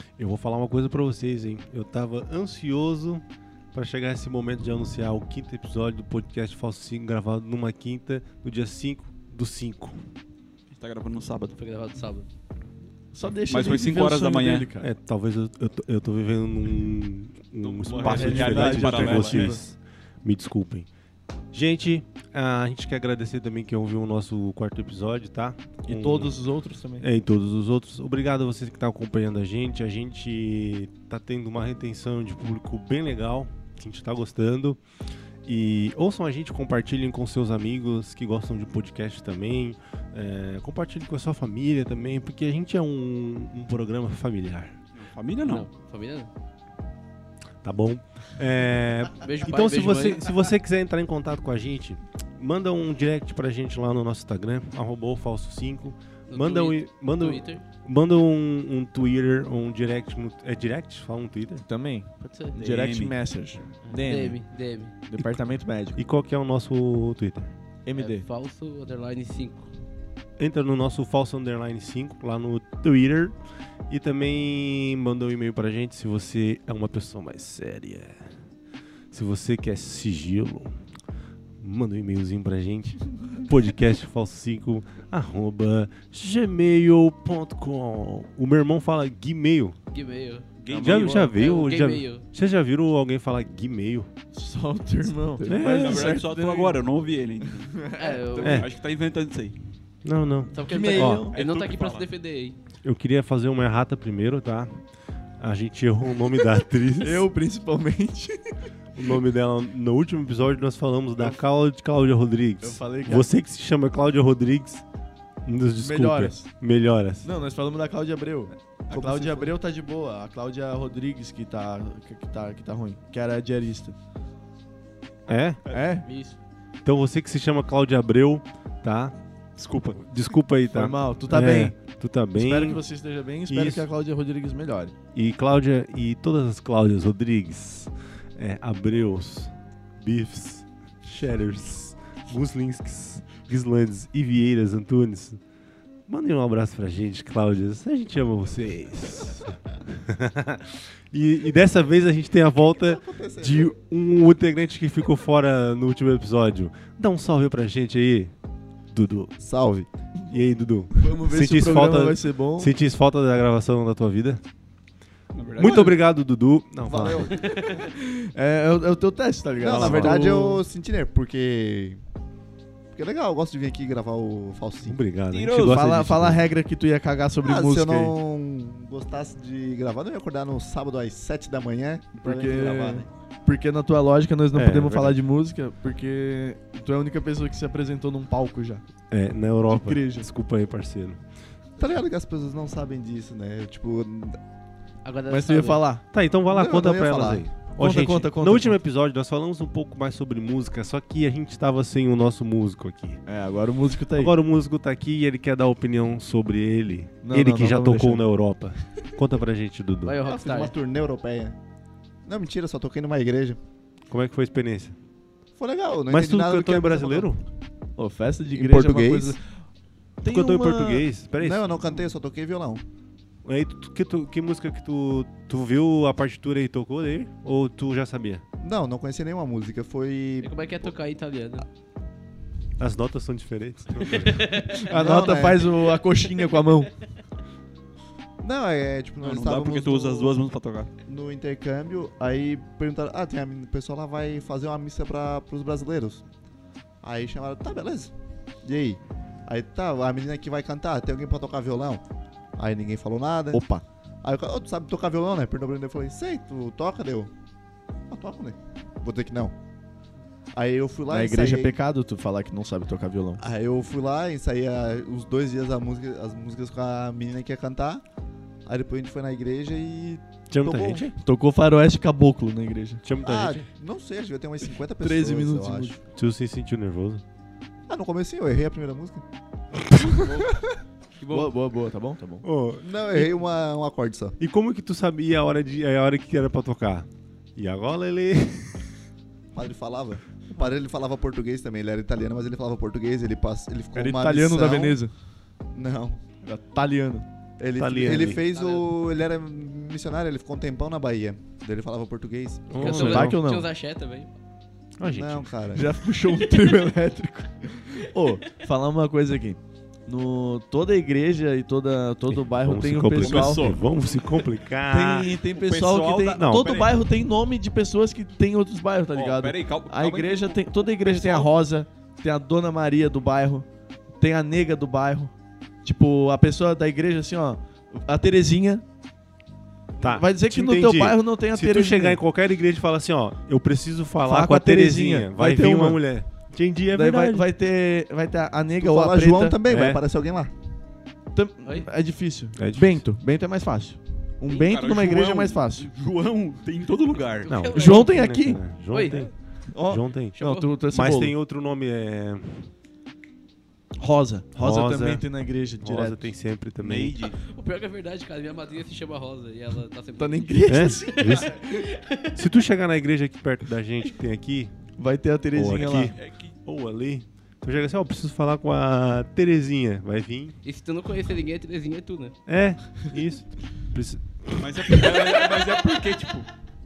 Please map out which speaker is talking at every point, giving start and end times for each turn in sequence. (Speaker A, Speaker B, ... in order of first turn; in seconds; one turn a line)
Speaker A: 0.2-10.0
Speaker B: 10.7-11.6
Speaker C: 11.6-12.3
Speaker D: 13.1-14.9
Speaker B: 13.5-14.7
Speaker A: 14.8-20.9
Speaker B: 17.6-19.6
Speaker D: 17.9-19.6
Speaker A: 21.5-26.4
Speaker D: 25.8-27.1
Speaker A: 27.0-34.8
Speaker A: 35.5-44.8
Speaker B: 45.0-45.7
Speaker C: 45.4-46.3
Speaker A: 47.6-61.6
Speaker C: 49.2-50.4
Speaker C: 56.3-57.6
Speaker D: 61.7-66.0
Speaker C: 62.2-62.6
Speaker B: 62.6-63.2
Speaker C: 63.9-64.9
Speaker A: 66.0-67.5
Speaker D: 67.8-68.3
Speaker C: 68.0-69.7
Speaker A: 70.4-73.3
Speaker A: 73.9-78.3
Speaker A: 79.1-80.8
Speaker A: 81.6-89.8
Speaker C: 89.9-90.5
Speaker B: 90.6-91.3
Speaker D: 90.7-91.3
Speaker A: 90.8-94.1
Speaker C: 91.2-92.2
Speaker D: 94.3-96.8
Speaker A: 95.4-96.2
Speaker B: 95.5-97.7
Speaker D: 97.4-98.7
Speaker C: 98.0-98.7
Speaker A: 98.4-98.7
Speaker B: 98.5-99.6
Speaker A: 100.0-101.3
Speaker C: 100.5-102.6
Speaker D: 100.6-101.3
Speaker B: 101.3-102.1
Speaker A: 102.8-104.8
Speaker A: 105.4-107.3
Speaker D: 107.0-109.0
Speaker A: 109.0-114.8
Speaker D: 112.6-113.3
Speaker A: 115.5-117.3
Speaker D: 115.8-116.5
Speaker D: 117.2-124.0
Speaker E: 118.9-119.6
Speaker A: 125.3-125.6
Speaker D: 125.7-126.1
Speaker C: 126.0-126.4
Speaker A: 126.8-129.1
Speaker B: 129.6-130.1
Speaker A: 130.0-132.8
Speaker D: 130.7-131.8
Speaker D: 132.3-134.9
Speaker A: 133.5-133.9
Speaker A: 135.1-145.4
Speaker A: 146.1-158.3
Speaker E: 152.8-153.7
Speaker A: 158.9-159.3
Speaker E: 159.4-159.9
Speaker A: 160.3-164.4
Speaker D: 161.0-162.7
Speaker B: 165.3-166.0
Speaker A: 165.6-167.3
Speaker D: 165.6-165.9
Speaker D: 166.9-170.6
Speaker E: 166.9-167.4
Speaker C: 167.4-167.8
Speaker E: 169.6-172.0
Speaker A: 169.7-170.2
Speaker E: 172.9-175.0
Speaker A: 174.8-176.4
Speaker B: 175.3-175.8
Speaker D: 175.5-178.2
Speaker E: 177.4-183.1
Speaker D: 182.2-188.8
Speaker A: 184.5-185.2
Speaker A: 189.1-191.2
Speaker D: 189.7-190.3
Speaker E: 191.8-194.4
Speaker C: 195.0-195.8
Speaker D: 195.3-196.1
Speaker A: 196.1-203.2
Speaker E: 196.5-197.5
Speaker D: 197.7-198.8
Speaker D: 203.3-204.3
Speaker A: 204.2-210.2
Speaker D: 207.2-208.2
Speaker C: 210.1-210.7
Speaker E: 210.2-211.6
Speaker E: 212.2-213.6
Speaker A: 214.1-214.9
Speaker E: 215.6-217.3
Speaker A: 216.1-217.4
Speaker D: 218.0-219.6
Speaker E: 218.5-219.4
Speaker D: 220.2-221.1
Speaker A: 220.2-221.7
Speaker E: 221.4-222.8
Speaker A: 223.4-228.4
Speaker E: 228.6-230.9
Speaker C: 230.4-231.7
Speaker A: 232.8-234.6
Speaker C: 234.0-234.9
Speaker D: 234.7-236.9
Speaker E: 234.9-235.7
Speaker E: 238.4-240.3
Speaker B: 239.2-240.9
Speaker E: 241.1-246.2
Speaker E: 247.0-248.1
Speaker E: 248.6-252.0
Speaker E: 252.6-253.6
Speaker D: 253.5-253.8
Speaker E: 254.2-257.3
Speaker E: 258.1-259.5
Speaker E: 260.5-261.8
Speaker D: 261.1-263.4
Speaker E: 263.4-268.0
Speaker E: 268.6-271.1
Speaker A: 270.5-271.1
Speaker D: 271.2-273.0
Speaker A: 273.0-273.7
Speaker E: 273.2-275.9
Speaker D: 275.0-276.0
Speaker A: 276.1-277.2
Speaker E: 277.9-279.2
Speaker E: 279.9-280.8
Speaker C: 280.2-280.6
Speaker C: 281.2-281.5
Speaker D: 281.3-282.5
Speaker A: 282.4-283.3
Speaker E: 282.8-284.4
Speaker A: 284.4-288.9
Speaker E: 289.5-295.0
Speaker D: 293.9-295.1
Speaker E: 295.7-296.3
Speaker D: 296.4-297.3
Speaker E: 297.6-302.8
Speaker A: 297.7-298.4
Speaker C: 298.3-298.9
Speaker A: 302.7-303.4
Speaker C: 302.8-304.3
Speaker D: 302.8-303.7
Speaker A: 305.0-305.5
Speaker E: 305.0-305.9
Speaker D: 305.8-313.7
Speaker C: 306.2-306.7
Speaker A: 312.3-315.3
Speaker B: 313.2-313.8
Speaker D: 314.9-323.7
Speaker B: 315.5-317.0
Speaker A: 316.4-316.8
Speaker B: 319.1-321.5
Speaker D: 324.2-325.3
Speaker D: 325.8-328.8
Speaker A: 330.0-337.5
Speaker D: 330.0-332.2
Speaker D: 334.2-336.0
Speaker D: 336.9-339.6
Speaker E: 338.8-340.5
Speaker A: 339.6-340.0
Speaker D: 341.3-345.9
Speaker A: 342.6-343.0
Speaker B: 344.5-347.5
Speaker C: 347.4-348.4
Speaker A: 347.5-349.3
Speaker D: 347.7-348.6
Speaker C: 348.9-349.2
Speaker D: 349.7-351.3
Speaker A: 349.9-350.4
Speaker C: 350.3-350.7
Speaker A: 350.9-352.7
Speaker D: 354.0-356.2
Speaker A: 354.5-355.2
Speaker A: 355.8-357.2
Speaker B: 356.8-357.4
Speaker C: 357.4-362.4
Speaker D: 360.2-361.9
Speaker A: 360.7-361.5
Speaker A: 362.3-364.8
Speaker D: 365.0-366.1
Speaker A: 365.5-370.6
Speaker B: 366.1-366.6
Speaker C: 370.6-372.3
Speaker A: 372.5-374.6
Speaker B: 374.6-376.5